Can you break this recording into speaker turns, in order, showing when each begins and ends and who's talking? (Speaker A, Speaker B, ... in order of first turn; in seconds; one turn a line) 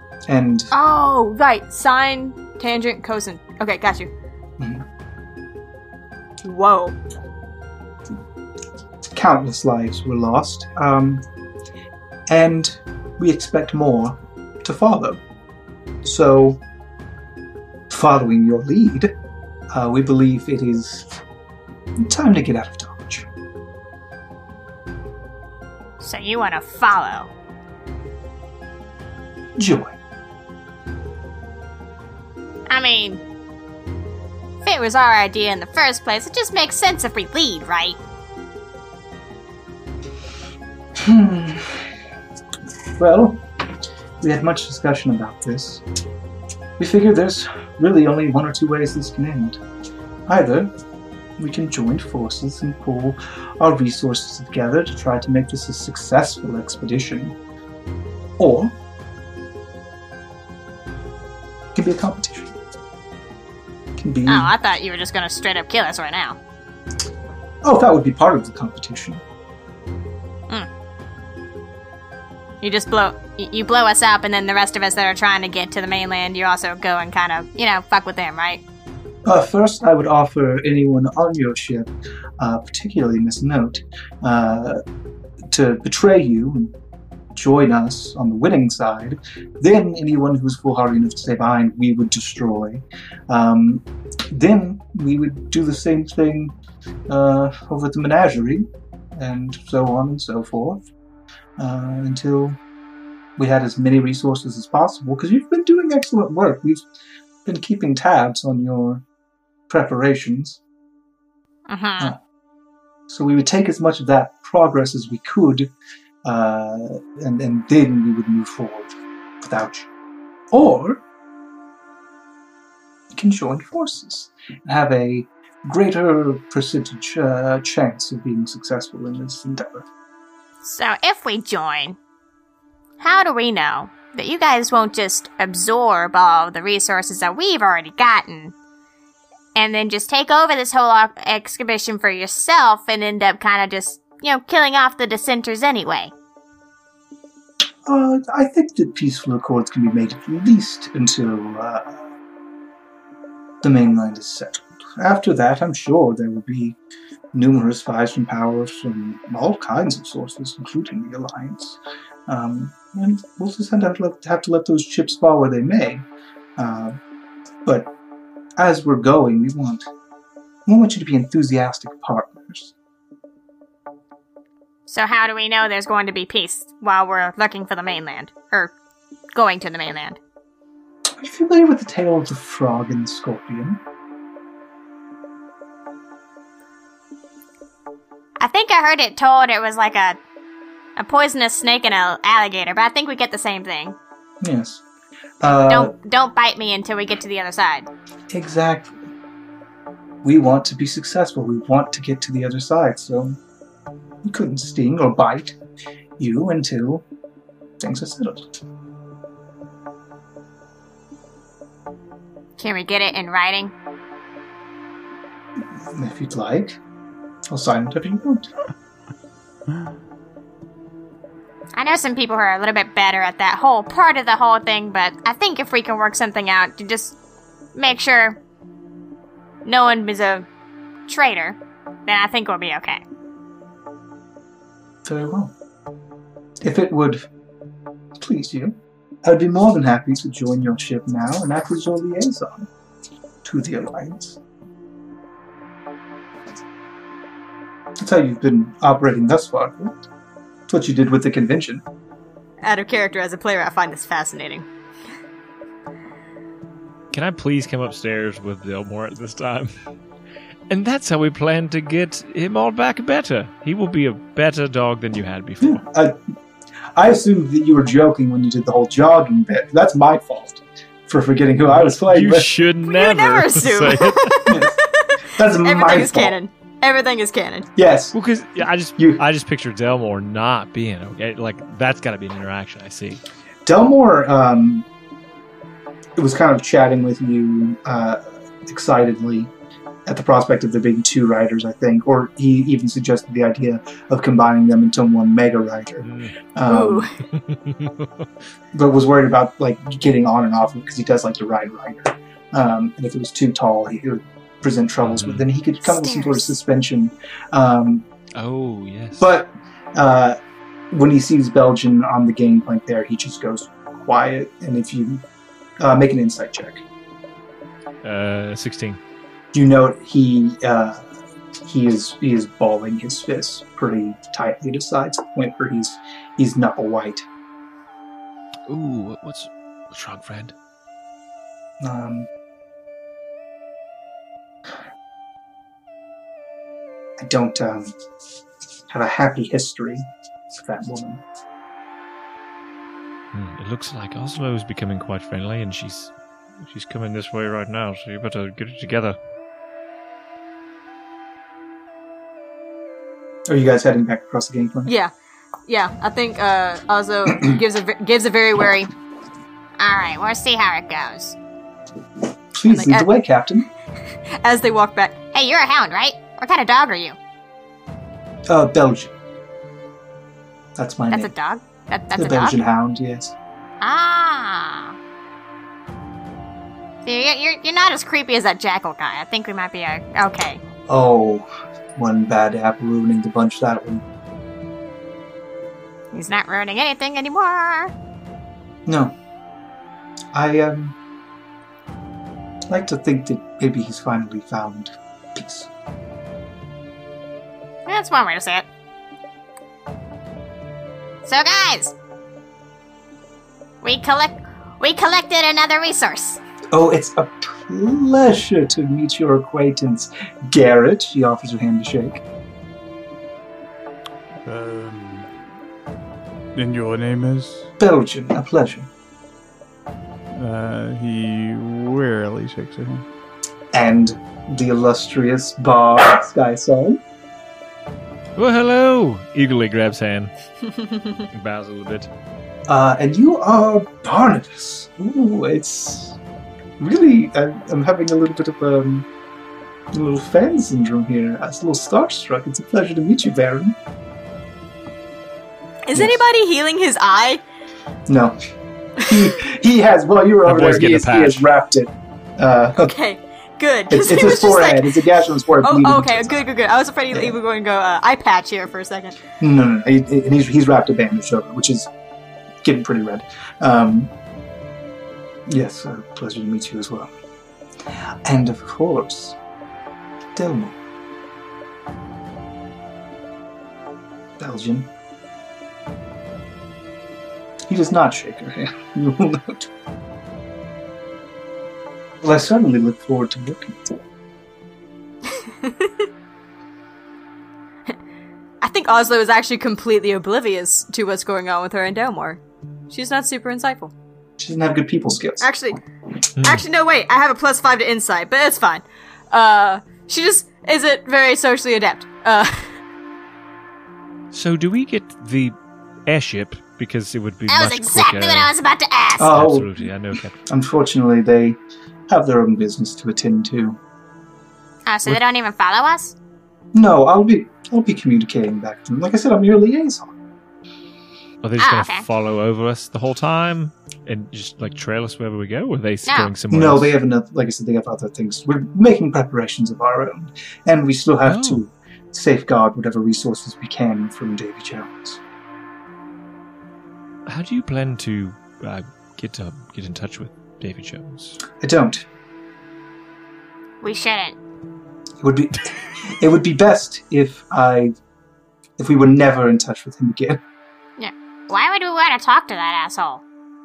Speaker A: 0.3-0.7
Speaker B: 0.7-4.1
Speaker A: 4.6-4.8
Speaker B: 6.4-7.0
Speaker A: 9.1-11.2
Speaker A: 12.3-15.2
Speaker A: 16.0-16.6
Speaker A: 17.9-19.1
Speaker A: 19.7-21.2
Speaker A: 22.0-23.3
Speaker C: 26.0-27.3
Speaker A: 29.6-30.0
Speaker C: 32.7-33.2
Speaker C: 34.6-38.0
Speaker A: 41.0-41.8
Speaker A: 43.0-43.4
Speaker A: 44.2-45.8
Speaker A: 46.8-49.6
Speaker A: 50.3-50.7
Speaker A: 51.4-57.4
Speaker A: 58.4-58.8
Speaker A: 61.8-62.5
Speaker A: 64.0-64.5
Speaker C: 64.3-66.4
Speaker A: 67.6-69.2
Speaker C: 72.6-78.6
Speaker A: 79.2-84.8
Speaker A: 85.5-86.7
Speaker A: 87.3-96.5
Speaker A: 97.1-100.8
Speaker A: 101.6-102.6
Speaker A: 103.4-106.8
Speaker A: 107.5-109.0
Speaker A: 109.7-110.6
Speaker C: 111.7-112.2
Speaker A: 113.1-115.7
Speaker A: 116.2-119.9
Speaker A: 120.5-121.0
Speaker A: 123.1-129.9
Speaker C: 130.6-132.0
Speaker C: 133.0-138.5
Speaker C: 139.6-146.1
Speaker A: 147.9-152.1
Speaker A: 153.6-156.8
Speaker A: 157.3-166.1
Speaker A: 166.6-167.0
Speaker A: 167.7-167.9
Speaker A: 168.6-169.9
Speaker A: 170.7-172.7
Speaker C: 174.9-178.8
Speaker C: 179.3-180.2
Speaker A: 181.2-183.8
Speaker C: 188.4-190.2
Speaker C: 191.0-194.0
Speaker A: 194.4-194.8
Speaker A: 195.4-195.9
Speaker C: 195.5-197.9
Speaker A: 198.3-199.1
Speaker A: 200.2-203.4
Speaker A: 204.2-205.6
Speaker A: 206.2-207.1
Speaker A: 207.8-208.5
Speaker C: 212.6-213.7
Speaker A: 215.9-216.8
Speaker A: 217.5-218.5
Speaker C: 221.8-227.2
Speaker C: 227.8-228.4
Speaker C: 229.7-230.5
Speaker C: 231.1-233.0
Speaker A: 235.1-235.5
Speaker A: 236.6-237.3
Speaker A: 238.2-242.7
Speaker A: 243.4-244.4
Speaker A: 248.0-250.0
Speaker A: 250.7-251.8
Speaker B: 252.6-254.7
Speaker D: 257.1-259.7
Speaker D: 260.7-265.8
Speaker A: 265.6-266.2
Speaker A: 267.0-272.6
Speaker D: 271.7-274.4
Speaker B: 272.9-274.7
Speaker A: 274.5-274.8
Speaker A: 275.3-276.4
Speaker B: 275.6-277.7
Speaker A: 277.8-278.1
Speaker D: 278.1-283.2
Speaker A: 279.0-279.2
Speaker A: 283.7-284.9
Speaker A: 286.2-289.5
Speaker A: 290.1-297.1
Speaker D: 296.0-296.3
Speaker B: 296.7-297.1
Speaker D: 297.3-298.1
Speaker A: 298.7-308.1
Speaker D: 305.0-305.4
Speaker C: 305.9-306.6
Speaker D: 308.3-309.3
Speaker A: 309.2-310.4
Speaker A: 310.9-315.2
Speaker A: 315.8-316.8
Speaker D: 318.0-319.0
Speaker A: 319.5-321.1
Speaker A: 321.6-327.2
Speaker D: 328.7-330.5
Speaker A: 331.8-332.3
Speaker A: 337.2-337.9
Speaker A: 338.9-341.2
Speaker D: 343.3-349.2
Speaker A: 353.5-354.9
Speaker B: 354.9-355.1
Speaker B: 355.7-358.9
Speaker C: 359.8-361.4
Speaker A: 362.5-363.7
Speaker B: 362.7-363.1
Speaker B: 364.4-365.2
Speaker C: 365.3-367.2
Speaker A: 368.5-369.1
Speaker A: 370.8-371.3
Speaker C: 371.1-372.6
Speaker A: 372.1-373.4
Speaker C: 373.8-374.9
Speaker C: 377.0-380.6
Speaker A: 380.9-384.0
Speaker C: 386.1-387.9
Speaker A: 388.9-389.1
Speaker A: 390.3-391.0
Speaker A: 392.7-395.7
Speaker C: 397.9-398.7
Speaker C: 401.2-401.9
Speaker C: 403.8-406.4
Speaker A: 406.7-412.2
Speaker E: 414.4-415.4
Speaker E: 416.6-417.7
Speaker A: 417.8-418.9
Speaker E: 420.3-423.1
Speaker A: 423.7-427.0
Speaker D: 428.4-430.3
Speaker D: 431.3-432.1
Speaker A: 432.7-436.2
Speaker A: 436.8-439.1
Speaker A: 439.9-443.8
Speaker B: 445.9-447.4
Speaker A: 445.9-446.2
Speaker A: 448.1-448.4
Speaker A: 449.0-452.9
Speaker D: 450.5-451.5
Speaker B: 452.8-455.1
Speaker A: 453.9-456.4
Speaker B: 455.6-459.2
Speaker A: 457.1-457.4
Speaker A: 459.4-461.9
Speaker A: 462.6-464.1
Speaker A: 465.5-467.1
Speaker A: 468.3-469.4
Speaker A: 470.4-470.8
Speaker A: 474.4-474.9
Speaker A: 477.7-479.7
Speaker A: 482.2-484.0
Speaker B: 485.4-486.1
Speaker B: 488.6-493.9
Speaker A: 494.4-495.5
Speaker B: 495.4-495.8
Speaker D: 496.4-496.7
Speaker B: 496.4-502.7
Speaker D: 504.3-508.5
Speaker C: 507.5-509.4
Speaker A: 509.2-509.9
Speaker D: 509.3-510.4
Speaker A: 510.4-513.8
Speaker C: 514.9-516.1
Speaker A: 516.7-520.1
Speaker D: 521.4-526.9
Speaker C: 521.6-522.0
Speaker C: 526.1-526.3
Speaker A: 526.5-535.2
Speaker D: 531.3-531.6
Speaker D: 537.3-541.4
Speaker A: 541.6-542.0
Speaker C: 543.8-544.4
Speaker A: 545.2-548.0
Speaker A: 548.8-550.4
Speaker C: 551.0-553.2